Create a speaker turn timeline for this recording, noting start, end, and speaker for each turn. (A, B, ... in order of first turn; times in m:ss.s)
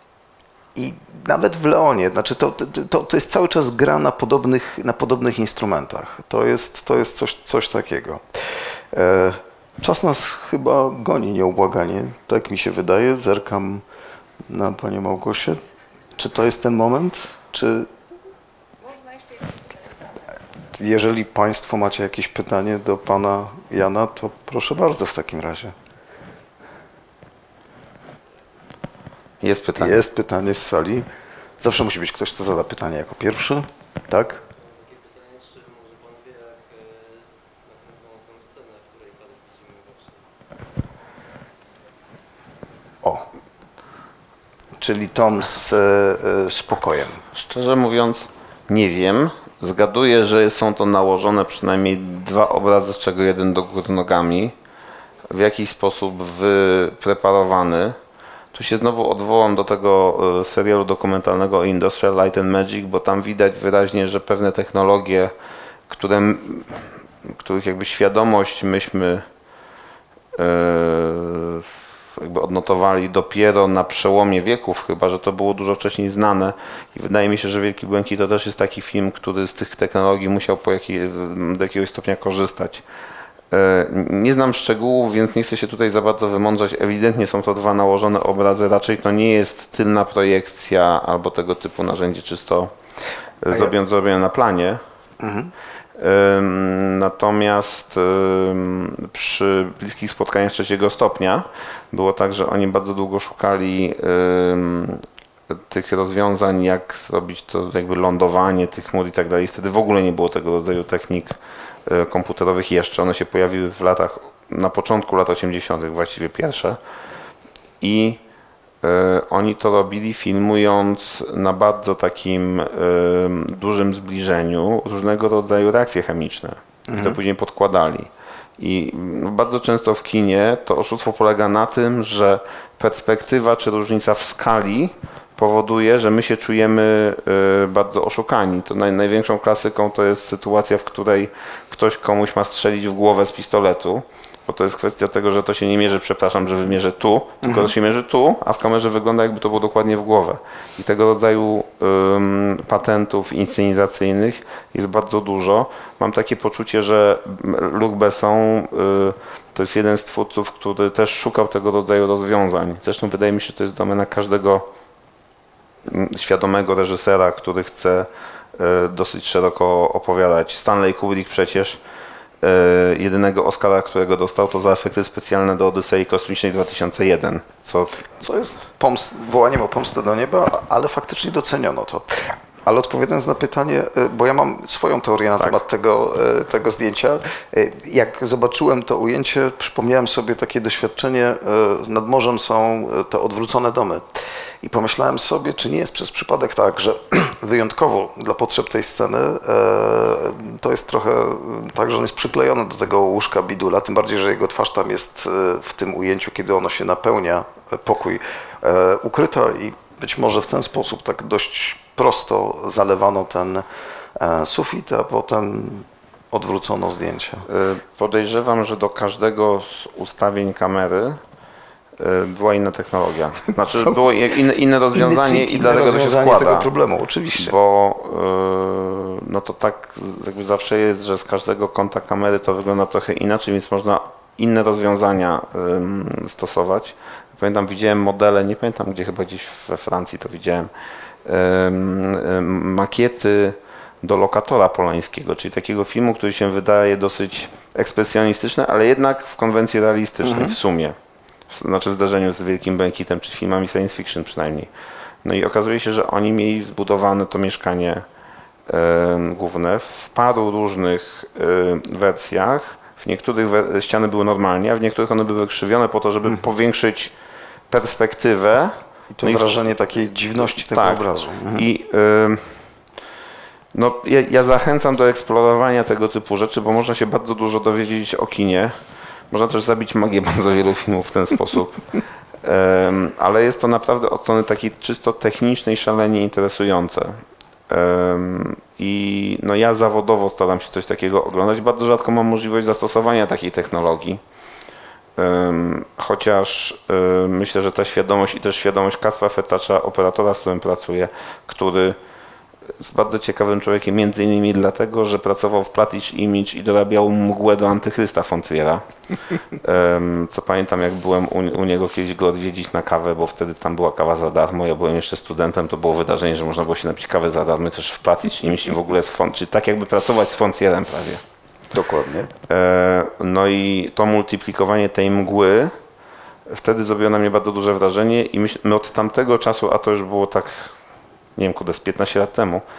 0:00.7-0:08.2 A
0:08.9-0:13.8 A
0:14.5-0:15.6 A
0:16.2-0:17.9 A
0:20.7-0:25.7 A
0:29.4-0:30.0 B
0:29.8-0:31.0 A
0:31.6-0:34.4 A
0:34.6-0:40.3 C
0:44.8-0:47.2 A
0:47.3-0:54.5 B
0:55.3-0:58.0 B
0:58.5-1:05.3 B
1:05.9-1:09.2 B
1:10.4-1:22.8 B
1:23.5-1:32.7 B
1:33.4-1:34.8 B
1:35.2-1:35.5 A
1:36.0-1:56.8 B
1:57.8-1:58.2 B
1:58.8-2:44.7 B
2:06.9-2:07.2 A
2:27.4-2:27.7 A
2:45.9-2:51.8 B
2:52.4-2:58.0 B
2:58.2-3:14.0 A
3:14.6-3:33.6 A
3:34.2-3:37.5 A
3:37.5-3:41.2 B
3:42.0-3:46.7 B
3:44.9-3:47.5 A
3:47.3-4:00.7 B
4:01.2-4:11.0 B
4:10.2-4:10.6 A
4:11.5-4:14.7 B
4:15.2-4:18.0 B
4:18.7-4:27.1 B
4:27.7-4:29.5 B
4:29.1-4:31.7 A
4:30.4-4:32.6 B
4:33.7-4:38.7 B
4:39.3-4:41.8 B
4:42.4-4:54.2 B
4:55.2-5:02.0 B
5:02.8-5:08.8 B
5:09.6-5:21.2 B
5:21.7-5:22.3 A
5:22.5-5:25.7 B
5:26.5-5:30.7 B
5:31.4-5:32.6 B